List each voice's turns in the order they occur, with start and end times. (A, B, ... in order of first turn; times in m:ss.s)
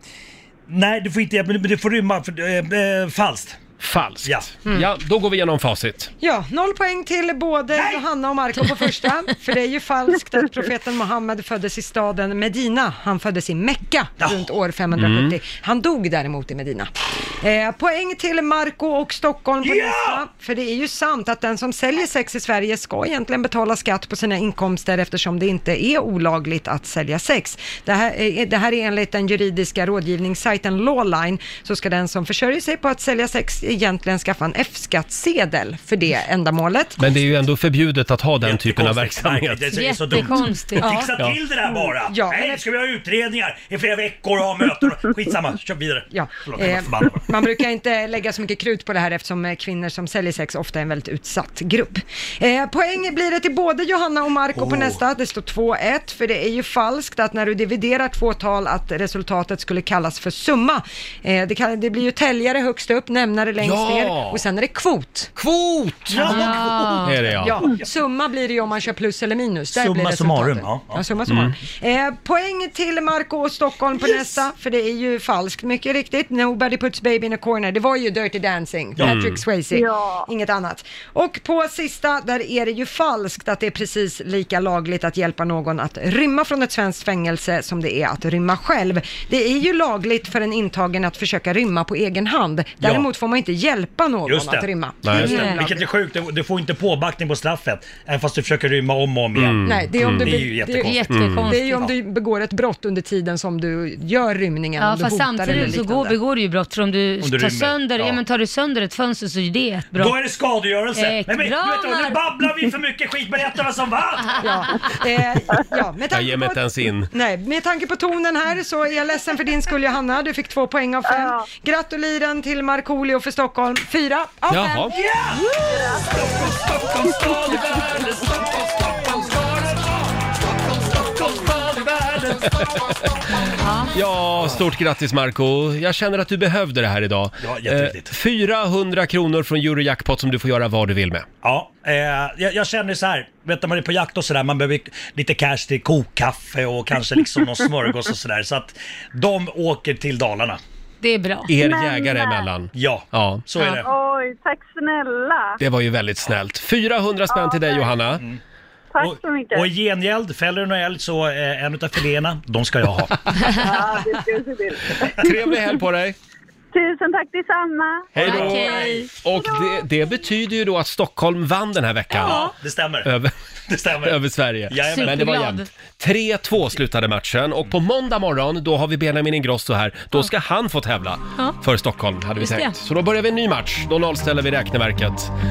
0:00.7-0:03.6 A
0:03.8-0:06.1 B
0:04.2-0:04.5 A
0:06.2-0:37.0 C
0:14.9-0:15.4 B
0:19.6-0:20.2 A
0:37.0-0:39.7 B
0:38.4-0:47.3 A
0:39.7-0:41.1 D
0:40.8-0:41.1 C
0:42.0-0:42.6 C
0:46.1-1:05.3 C
0:54.6-0:54.9 A
1:03.6-1:04.4 B
1:05.4-1:07.6 B
1:06.1-1:07.0 A
1:06.2-1:06.6 C
1:06.2-1:07.1 D
1:07.4-1:35.8 C
1:09.7-1:11.0 A
1:11.3-1:11.5 B
1:19.0-1:19.4 B
1:19.7-1:20.3 E
1:32.8-1:33.0 A
1:34.2-1:41.1 A
1:35.0-1:35.4 B
1:35.2-1:35.6 D
1:39.3-1:40.5 B
1:39.6-1:46.2 C
1:40.8-1:41.9 D
1:41.1-1:41.5 B
1:44.8-1:50.2 D
1:47.2-1:48.2 A
1:49.9-1:54.5 A
1:50.9-1:52.2 D
1:54.4-2:05.4 C
1:56.1-1:57.1 B
2:01.0-2:01.5 E
2:04.5-2:05.0 B
2:04.9-2:09.7 A
2:05.6-2:06.2 E
2:06.7-2:08.3 B
2:10.6-2:12.7 A
2:12.3-2:13.3 B
2:13.5-2:13.9 D
2:13.9-2:21.2 B
2:17.4-2:18.1 A
2:21.4-2:30.6 A
2:31.0-2:31.5 D
2:31.5-2:33.4 B
2:31.6-2:32.5 E
2:32.7-2:33.9 A
2:33.8-2:35.6 E
2:35.6-2:38.2 B
2:37.3-2:38.0 E
2:38.9-2:39.7 E
2:39.0-2:43.7 A
2:43.6-2:45.5 E
2:45.0-2:46.2 B
2:46.7-2:49.8 E
2:48.1-2:52.5 B
2:48.2-2:49.0 A
2:48.2-2:49.1 D
2:52.1-2:52.5 D
2:52.2-2:53.1 A
2:53.0-2:53.3 B
2:53.7-2:54.2 A
2:54.0-3:05.3 B
2:54.7-2:55.4 A
2:54.9-2:55.7 D
3:02.4-3:02.8 D